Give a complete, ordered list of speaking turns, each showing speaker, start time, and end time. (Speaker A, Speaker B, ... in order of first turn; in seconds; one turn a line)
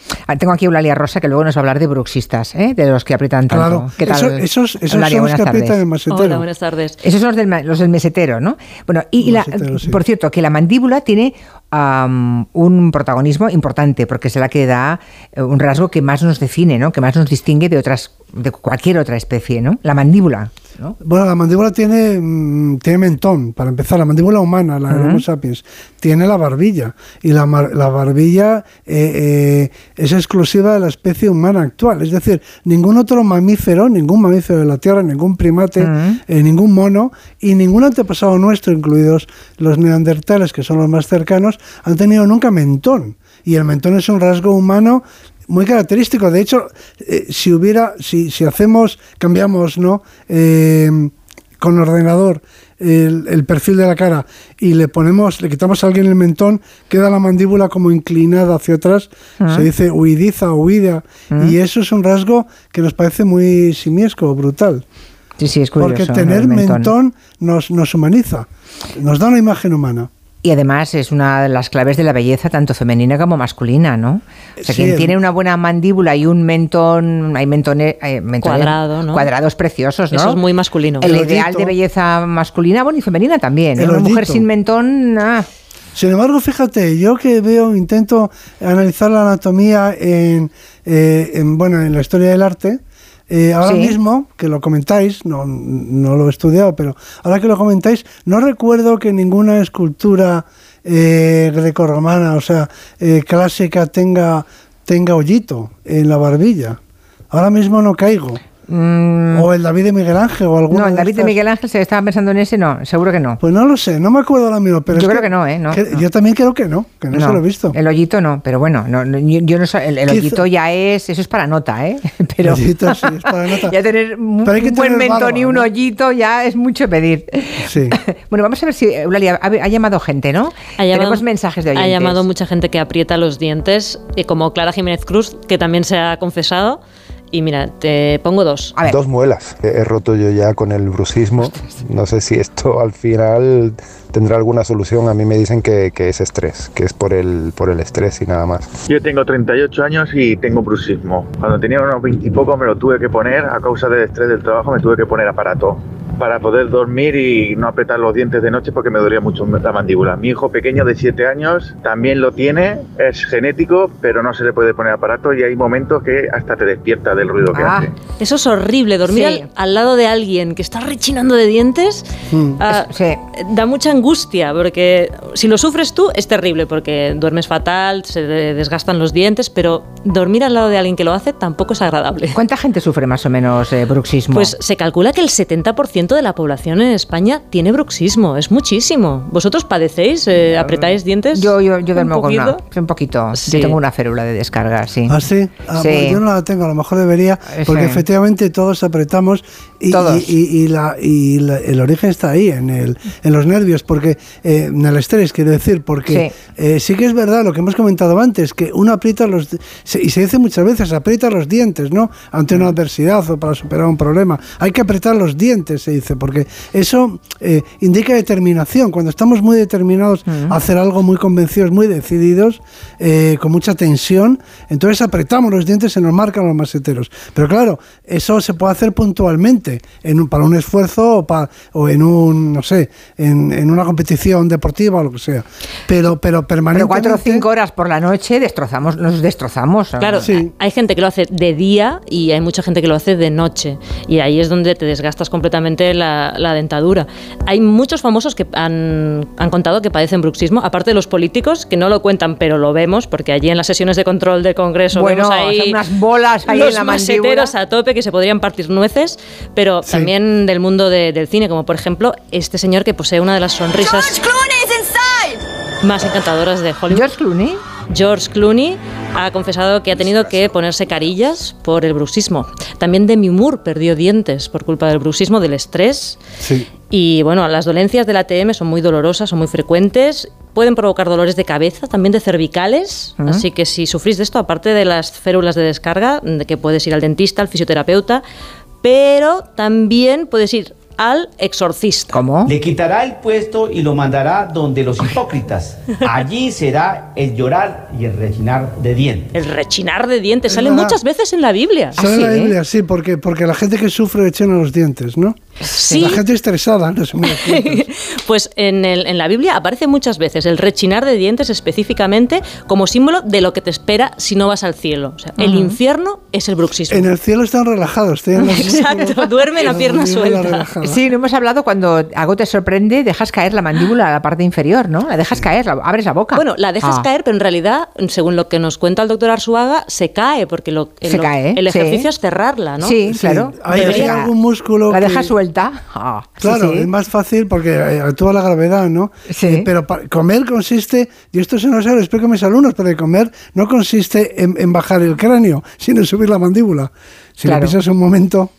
Speaker A: 0.3-5.8
Speaker B: 3.5-6.5
Speaker C: 6.1-7.0
Speaker A: 7.0-21.0
Speaker B: 9.2-10.0
Speaker B: 21.0-64.8
Speaker A: 24.9-25.2
Speaker A: 35.8-36.2
Speaker A: 59.4-59.7
Speaker A: 61.3-61.5
Speaker A: 65.4-66.9
Speaker B: 65.8-70.1
Speaker A: 70.4-80.4
Speaker B: 74.6-75.2
Speaker C: 78.4-79.3
Speaker C: 80.1-81.2
Speaker A: 81.0-85.5
Speaker B: 81.0-81.8
Speaker B: 83.8-84.5
Speaker B: 86.0-106.8
Speaker A: 93.6-94.0
Speaker B: 107.3-108.4
Speaker A: 108.7-109.5
Speaker B: 109.3-111.4
Speaker A: 110.7-113.4
Speaker B: 113.4-117.8
Speaker A: 114.9-116.0
Speaker A: 117.1-123.1
Speaker B: 120.1-120.4
Speaker B: 122.4-123.8
Speaker A: 123.6-132.2
Speaker B: 124.5-125.7
Speaker B: 127.6-128.0
Speaker C: 130.8-136.8
Speaker C: 137.3-138.7
Speaker D: 138.8-148.7
Speaker E: 148.9-167.9
Speaker A: 167.5-167.9
Speaker C: 168.2-172.1
Speaker A: 169.1-169.5
Speaker B: 172.3-172.6
Speaker C: 172.6-182.4
Speaker A: 172.7-173.2
Speaker A: 182.3-184.5
Speaker C: 184.3-192.6
Speaker B: 190.5-191.0
Speaker A: 191.3-195.2
Speaker C: 193.4-193.8
Speaker B: 195.1-237.5
Speaker A: 195.8-196.2
Speaker A: 197.5-198.0
Speaker A: 199.9-200.3
Speaker A: 220.3-220.5
Speaker A: 236.7-240.3
Speaker C: 240.0-255.8
Speaker B: 240.2-240.5
Speaker A: 254.9-257.5
Speaker C: 256.4-265.1
Speaker B: 259.9-260.1
Speaker C: 265.8-267.1
Speaker A: 266.9-267.6
Speaker C: 267.9-276.2
Speaker B: 276.4-276.7
Speaker C: 276.9-288.2
Speaker A: 283.2-283.4
Speaker C: 288.8-292.2
Speaker A: 292.1-292.5
Speaker F: 292.4-299.3
Speaker C: 299.3-302.0
Speaker B: 300.5-301.0
Speaker B: 301.9-305.4
Speaker A: 302.0-302.6
Speaker C: 305.7-306.2
Speaker A: 305.7-306.1
Speaker B: 306.0-307.9
Speaker C: 307.2-317.1
Speaker A: 315.4-315.8
Speaker B: 316.9-321.0
Speaker C: 318.4-320.7
Speaker A: 320.8-327.1
Speaker C: 326.3-333.0
Speaker A: 331.1-332.1
Speaker A: 332.8-334.3
Speaker B: 333.1-335.3
Speaker C: 333.7-334.2
Speaker A: 334.9-336.9
Speaker B: 336.4-348.5
Speaker A: 339.3-339.7
Speaker A: 347.4-347.8